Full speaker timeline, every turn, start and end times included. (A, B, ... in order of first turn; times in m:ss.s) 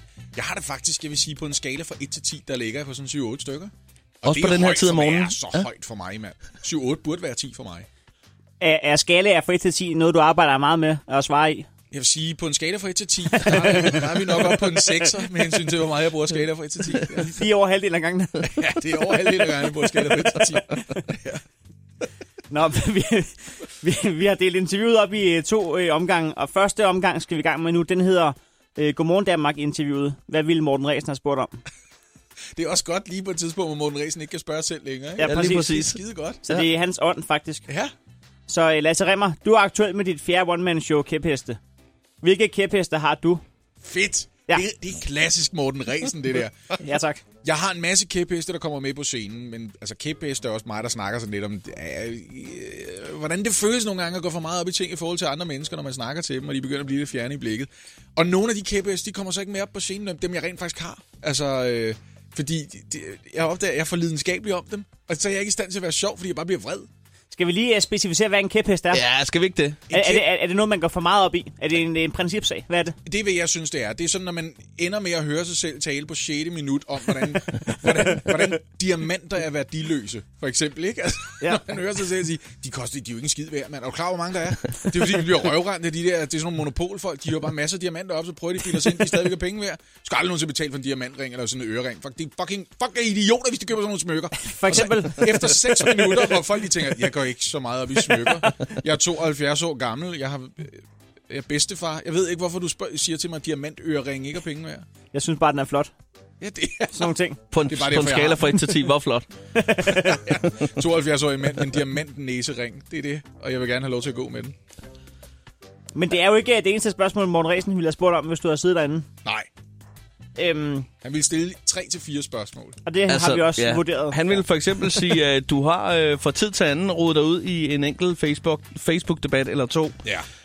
0:00.3-0:03.7 A
0:04.2-0:05.7 B
0:04.2-0:07.9 A
0:08.6-0:11.7 C
0:11.9-0:17.4 A
0:13.3-0:15.1 C
0:17.0-0:18.5 C
0:18.4-0:21.4 A
0:22.5-0:31.6 C
0:32.5-0:36.4 A
0:35.2-0:35.7 C
0:35.2-0:36.6 B
0:36.4-0:37.6 C
0:38.5-0:41.6 C
0:42.2-0:43.4 C
0:43.8-0:46.8 A
0:46.8-0:47.2 C
0:47.4-1:06.9 A
1:07.3-1:09.0 C
1:08.9-1:09.8 B
1:09.9-1:10.2 A
1:09.9-1:13.0 C
1:13.0-1:44.8 A
1:34.5-1:35.7 C
1:45.1-1:45.9 C
1:46.4-1:47.1 A
1:46.9-1:47.4 C
1:47.5-1:49.3 B
1:47.7-1:48.6 A
1:49.5-1:50.3 C
1:50.0-1:54.6 A
1:55.9-1:59.0 C
2:00.4-2:00.9 C
2:01.0-2:02.8 A
2:02.8-2:05.2 C
2:03.1-2:10.0 B